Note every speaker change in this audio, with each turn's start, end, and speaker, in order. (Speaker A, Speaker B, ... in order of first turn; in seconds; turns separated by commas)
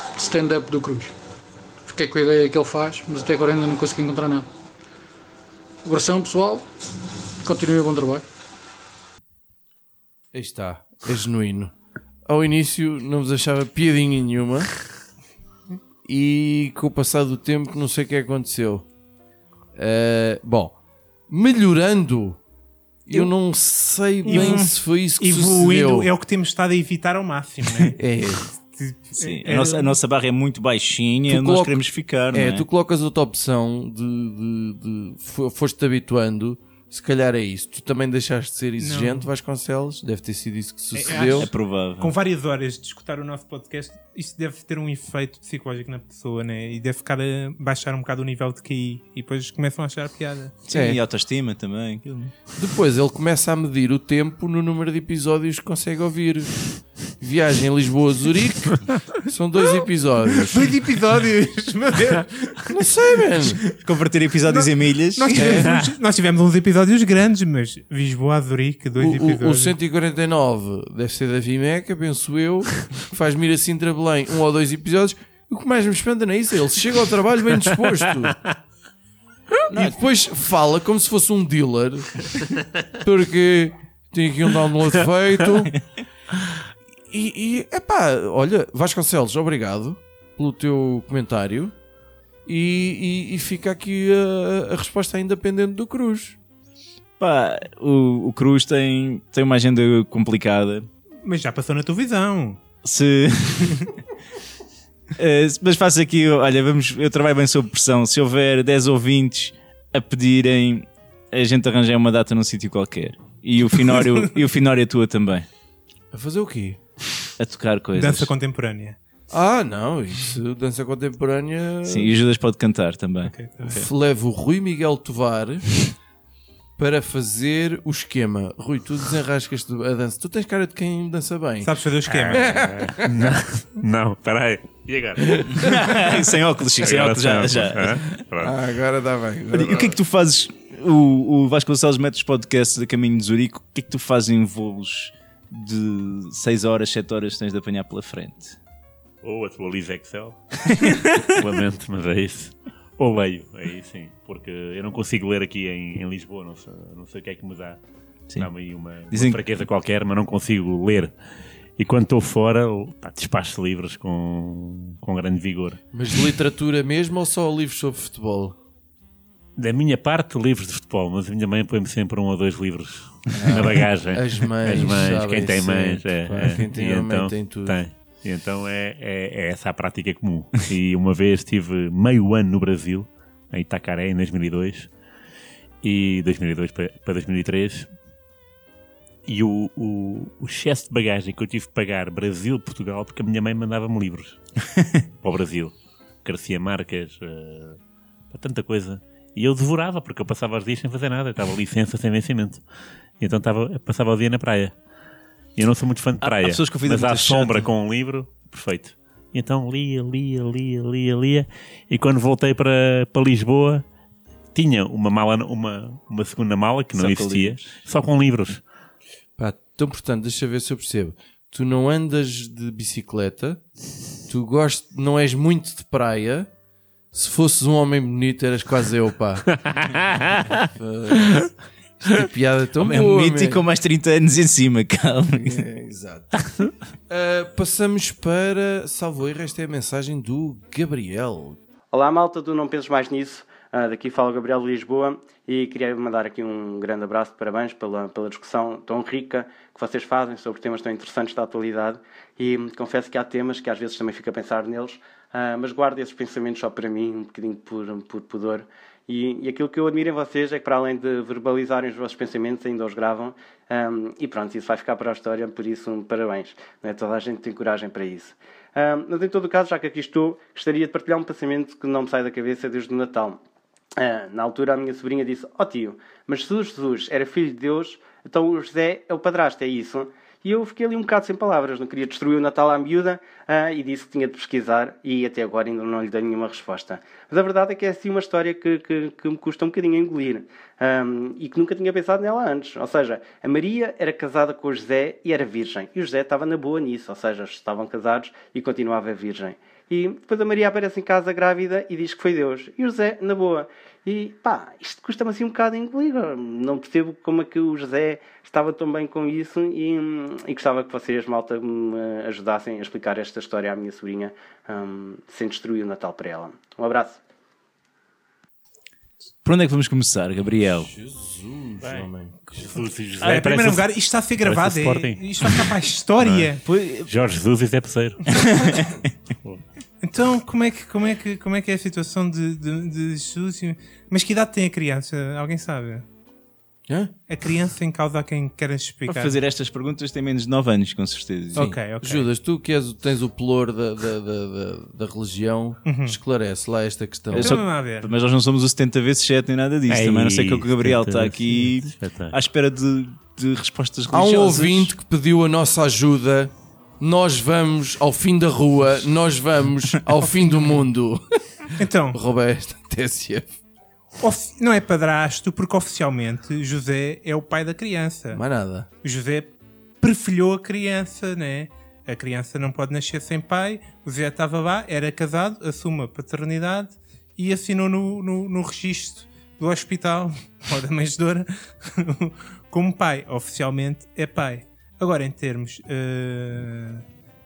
Speaker A: 0.1-1.1, Speaker A: 1.9-4.5, Speaker A: 5.8-6.7, Speaker A: 7.4-8.2, Speaker B: 10.3-11.7, Speaker B: 12.2-14.8, Speaker B: 16.0-18.9, Speaker B: 19.7-20.8, Speaker B: 21.3-22.4, Speaker B: 23.1-26.1, Speaker C: 24.2-28.0, Speaker D: 24.3-24.7, Speaker B: 28.0-28.4, Speaker C: 28.7-30.0, Speaker D: 29.1-32.7, Speaker B: 31.3-41.5, Speaker C: 38.8-39.3, Speaker C: 40.9-50.5, Speaker D: 41.4-42.1, Speaker D: 50.7-52.3, Speaker B: 50.7-51.0, Speaker B: 52.5-56.6, Speaker B: 57.2-60.7, Speaker C: 60.5-62.7, Speaker B: 62.7-63.6, Speaker D: 63.8-65.7, Speaker C: 64.5-69.8, Speaker B: 65.3-65.7, Speaker B: 69.0-78.4, Speaker D: 79.7-80.0, Speaker B: 79.7-82.3, Speaker B: 83.0-85.7, Speaker B: 87.1-91.7, Speaker B: 92.5-96.4, Speaker D: 97.2-100.9, Speaker C: 101.2-102.6, Speaker D: 102.8-103.8, Speaker D: 105.2-115.5, Speaker B: 116.1-116.8, Speaker D: 117.4-118.3, Speaker C: 118.0-119.0, Speaker B: 119.3-122.1, Speaker D: 121.8-123.9, Speaker C: 123.3-123.8, Speaker B: 123.7-125.7, Speaker B: 126.8-131.7, Speaker C: 131.6-132.6, Speaker E: 132.1-135.6, Speaker B: 132.3-133.1, Speaker D: 135.6-138.2, Speaker E: 136.8-138.6, Speaker B: 138.4-140.0, Speaker D: 139.5-148.6, Speaker E: 149.2-157.8, Speaker E: 158.4-161.1, Speaker D: 159.1-159.4, Speaker E: 161.8-165.8, Speaker B: 165.9-168.6, Speaker E: 169.6-184.9, Speaker D: 173.4-173.8, Speaker B: 174.1-177.8, Speaker E: 185.8-187.9, Speaker E: 189.2-194.4, Speaker E: 195.2-202.6, Speaker E: 203.2-204.7, Speaker E: 205.6-213.8, Speaker D: 206.2-207.7, Speaker E: 214.5-218.6, Speaker D: 216.9-217.7, Speaker B: 219.4-223.7, Speaker B: 224.2-226.5, Speaker B: 227.1-229.4, Speaker E: 229.6-230.6, Speaker B: 230.7-231.5, Speaker B: 232.0-233.6, Speaker D: 232.8-235.7, Speaker B: 235.4-236.4, Speaker B: 237.1-241.6, Speaker F: 241.9-273.4, Speaker F: 274.0-317.2, Speaker D: 319.4-320.9, Speaker B: 320.8-322.5, Speaker E: 321.8-328.3, Speaker C: 323.2-326.6, Speaker D: 326.6-327.1, Speaker D: 328.4-328.8, Speaker C: 330.0-336.0, Speaker C: 337.3-339.4, Speaker D: 339.1-341.6, Speaker C: 341.5-342.3, Speaker B: 341.6-347.6, Speaker C: 345.8-346.2, Speaker D: 347.3-354.9, Speaker C: 347.3-348.1, Speaker E: 349.9-352.4, Speaker B: 354.1-361.2, Speaker C: 361.8-362.2, Speaker B: 362.1-363.5, Speaker C: 364.2-368.4, Speaker B: 368.3-368.9, Speaker C: 369.0-387.0